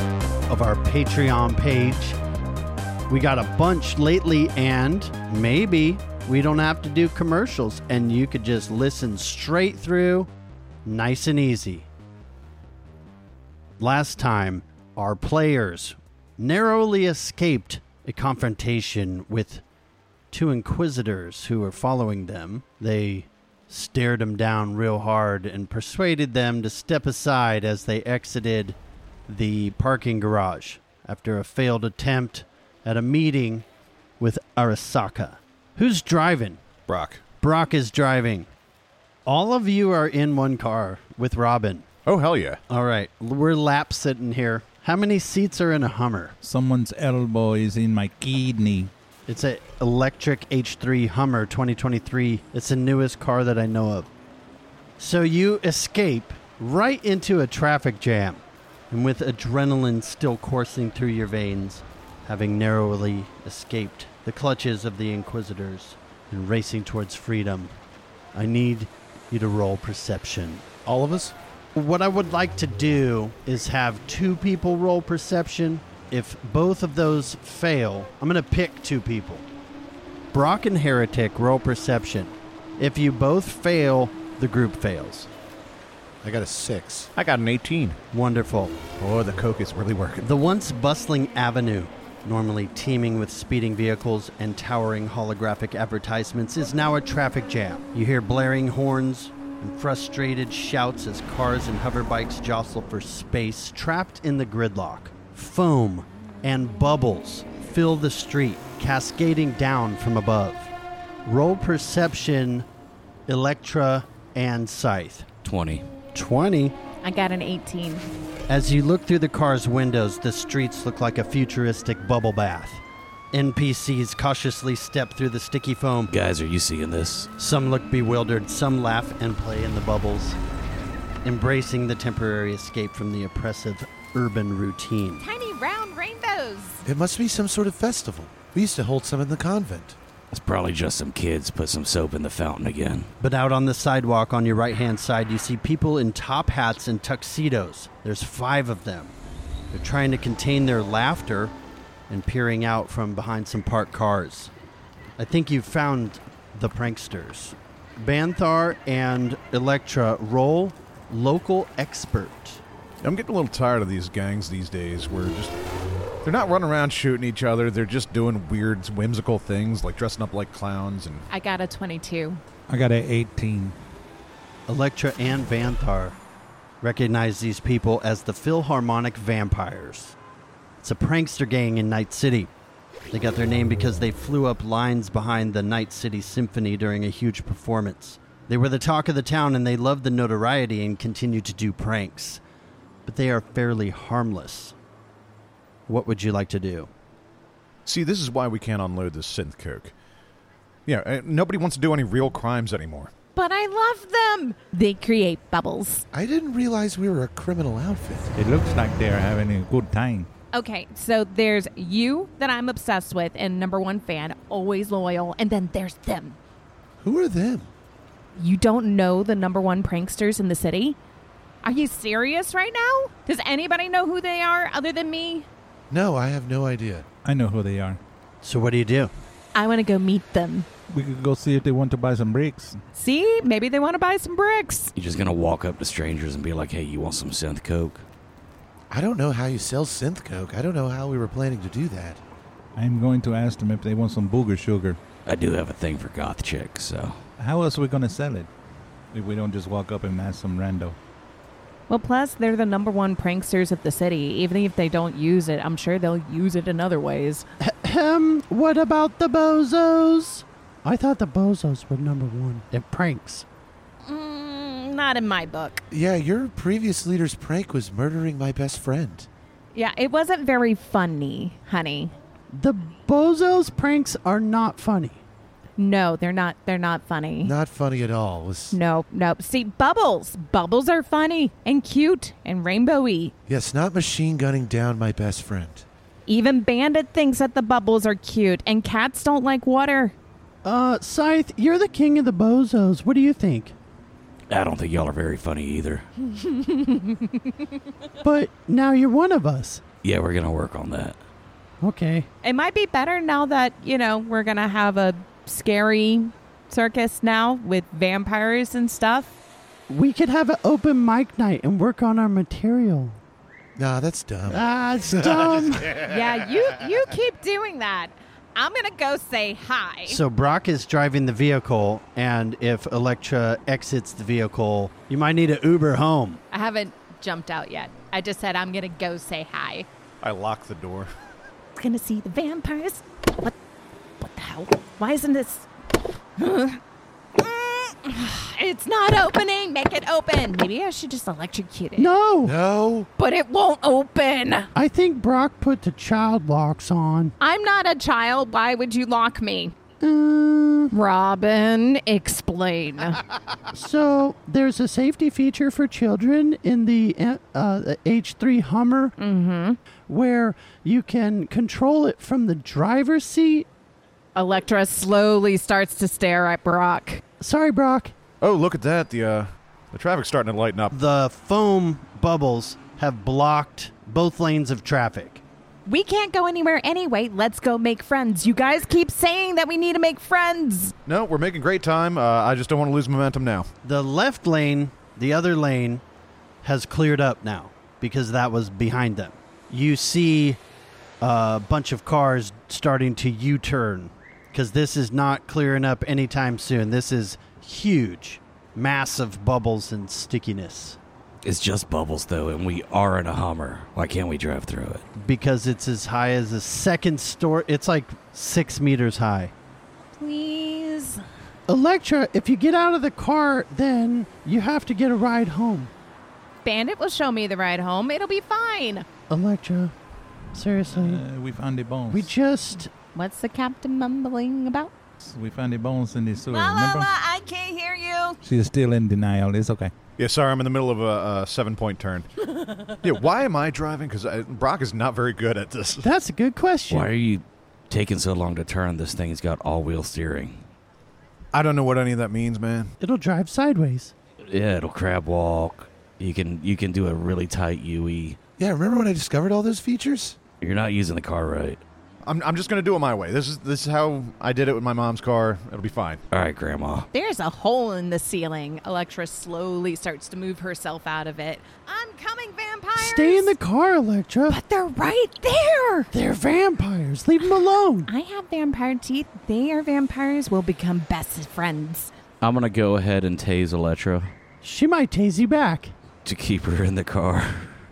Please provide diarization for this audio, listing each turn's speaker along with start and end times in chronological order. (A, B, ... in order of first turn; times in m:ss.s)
0:00.5-0:02.2 A
0:03.1-0:10.3 A
0:10.8-0:11.9 A
0:13.8-0:19.6 A
0:20.3-0:33.6 A
0:34.2-0:36.6 A
0:36.9-0:37.2 B
0:37.4-0:38.5 A
0:39.2-0:41.9 A
0:42.0-0:42.6 B
0:42.7-0:46.4 A
0:46.4-0:48.9 C
0:49.3-0:54.1 A
0:55.0-1:07.7 A
1:08.3-1:10.6 A
1:10.8-1:11.3 D
1:11.7-1:19.4 A
1:20.3-1:25.3 A
1:26.2-1:27.1 D
1:27.2-1:28.0 B
1:28.1-1:28.8 A
1:29.0-1:30.2 B
1:30.2-1:50.7 A
1:51.2-1:52.7 A
1:53.3-1:55.3 A
1:55.4-1:55.9 E
1:56.1-1:56.8 A
1:57.0-1:58.1 F
1:58.5-2:06.1 A
2:06.1-2:07.3 E
2:07.4-2:10.4 A
2:11.2-2:15.2 A
2:15.2-2:16.8 F
2:16.8-2:20.0 D
2:20.3-2:23.1 E
2:23.2-2:29.1 A
2:29.7-2:31.5 A
2:32.1-2:34.5 A
2:35.2-2:42.6 A
2:43.0-2:45.5 B
2:46.2-2:51.2 B
2:51.3-2:52.4 F
2:52.7-2:53.8 C
2:54.7-2:56.2 A
2:56.8-3:00.1 A
3:00.8-3:02.5 A
3:03.1-3:12.4 A
3:13.0-3:14.7 A
3:15.9-3:16.9 A
3:17.8-3:19.9 B
3:20.9-3:23.1 B
3:23.3-3:26.0 F
3:26.1-3:28.3 D
3:28.4-3:30.3 C
3:30.5-3:36.4 F
3:37.0-3:37.7 D
3:38.4-3:41.0 F
3:41.6-3:45.5 F
3:45.9-3:47.0 D
3:47.2-3:48.0 C
3:48.4-3:49.1 A
3:49.5-3:50.7 F
3:50.9-3:52.8 C
3:52.9-3:54.9 F
3:54.9-3:58.0 E
3:58.9-4:02.2 D
4:02.8-4:05.0 C
4:05.2-4:07.2 E
4:07.4-4:08.5 C
4:09.1-4:11.0 C
4:11.9-4:17.4 F
4:17.6-4:23.4 A
4:24.0-4:25.8 F
4:25.9-4:29.3 D
4:29.7-4:32.1 F
4:32.5-4:35.2 A
4:35.8-4:37.5 F
4:37.4-4:38.8 D
4:38.7-4:43.3 F
4:43.5-4:45.8 D
4:46.3-4:50.1 F
4:50.6-4:53.7 A
4:54.5-4:56.1 E
4:56.2-4:57.7 F
4:58.2-4:59.8 A
5:00.0-5:01.2 E
5:01.8-5:02.3 A
5:02.4-5:09.3 F
5:09.9-5:13.2 A
5:13.8-5:16.3 D
5:14.5-5:16.0 A
5:16.0-5:20.2 F
5:20.1-5:26.4 A
5:26.5-5:29.9 F
5:30.2-5:31.1 B
5:31.8-5:33.5 F
5:34.2-5:35.7 F
5:36.4-5:36.8 F
5:37.3-5:42.1 F
5:42.0-5:42.6 A
5:42.4-5:43.1 D
5:43.2-5:44.7 F
5:44.7-5:47.3 A
5:47.4-5:49.7 F
5:50.0-5:50.9 A
5:50.9-5:53.2 F
5:53.7-5:59.2 A
5:59.2-5:59.8 F
6:00.1-6:03.7 A
6:04.3-6:07.2 F
6:07.4-6:08.1 A
6:08.4-6:10.9 B
6:10.9-6:15.4 A
6:15.8-6:20.9 F
6:21.0-6:23.7 B
6:23.8-6:26.0 A
6:26.6-6:30.6 A
6:31.2-6:41.0 A
6:41.4-6:45.0 E
6:45.2-6:49.5 A
6:50.2-6:51.2 F
6:51.7-6:55.9 A
6:56.6-6:59.0 F
6:59.3-6:59.9 A
7:00.5-7:01.2 A
7:00.9-7:02.3 C
7:02.1-7:02.9 A
7:03.1-7:04.9 F
7:05.2-7:07.1 C
7:06.5-7:08.4 F
7:08.4-7:09.9 C
7:10.2-7:12.3 B
7:12.6-7:12.9 F
7:13.0-7:16.0 B
7:16.0-7:17.1 A
7:16.9-7:20.6 E
7:21.5-7:22.9 B
7:23.0-7:24.1 A
7:24.4-7:28.4 E
7:28.6-7:30.4 D
7:30.6-7:31.8 E
7:32.2-7:36.2 B
7:36.3-7:37.1 E
7:37.1-7:43.5 F
7:43.0-7:44.6 A
7:44.5-7:46.1 F
7:46.1-7:48.1 A
7:48.1-7:52.1 F
7:52.4-7:54.3 E
7:54.6-7:55.9 A
7:56.2-7:57.8 E